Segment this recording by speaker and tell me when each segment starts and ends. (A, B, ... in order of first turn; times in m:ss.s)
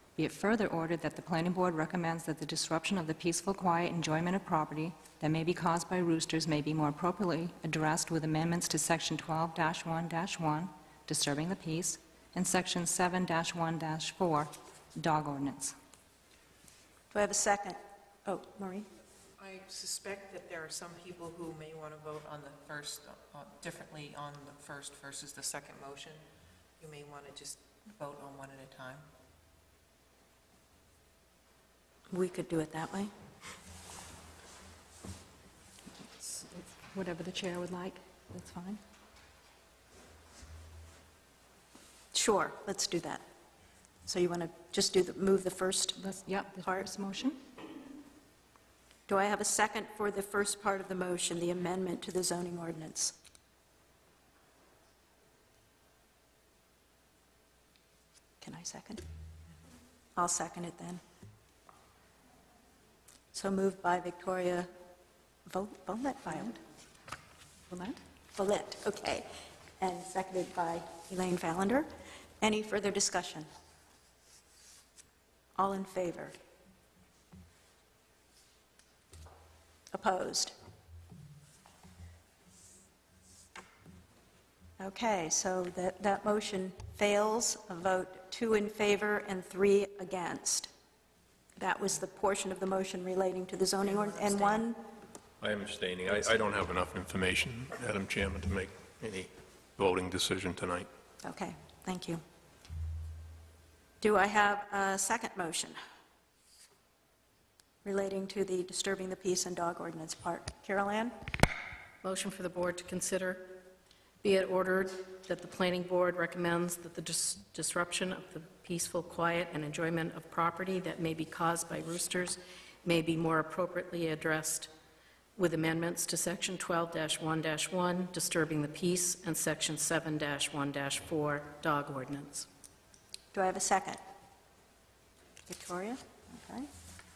0:00.2-0:15.8 A
0:17.1-0:18.9 B
0:19.4-0:26.2 C
0:26.8-0:29.1 C
0:32.1-0:33.1 B
0:36.0-0:38.8 A
0:42.1-0:43.2 B
0:44.0-0:46.0 B
0:46.0-0:47.4 A
0:49.1-0:53.1 B
0:58.4-0:59.0 B
1:00.2-1:01.0 B
1:03.3-1:04.7 B
1:05.5-1:06.6 B
1:08.4-1:09.3 B
1:09.8-1:11.9 B
1:12.4-1:13.5 B
1:15.6-1:16.3 B
1:19.9-1:20.5 B
1:24.8-1:30.7 B
1:31.6-1:34.8 B
1:35.4-1:40.9 D
1:41.2-1:42.2 B
1:44.0-1:45.8 B
1:47.8-1:51.1 B
1:52.0-1:53.6 E
1:54.2-2:04.7 E
2:05.4-2:12.5 E
2:13.3-2:14.0 B
2:15.5-2:16.7 B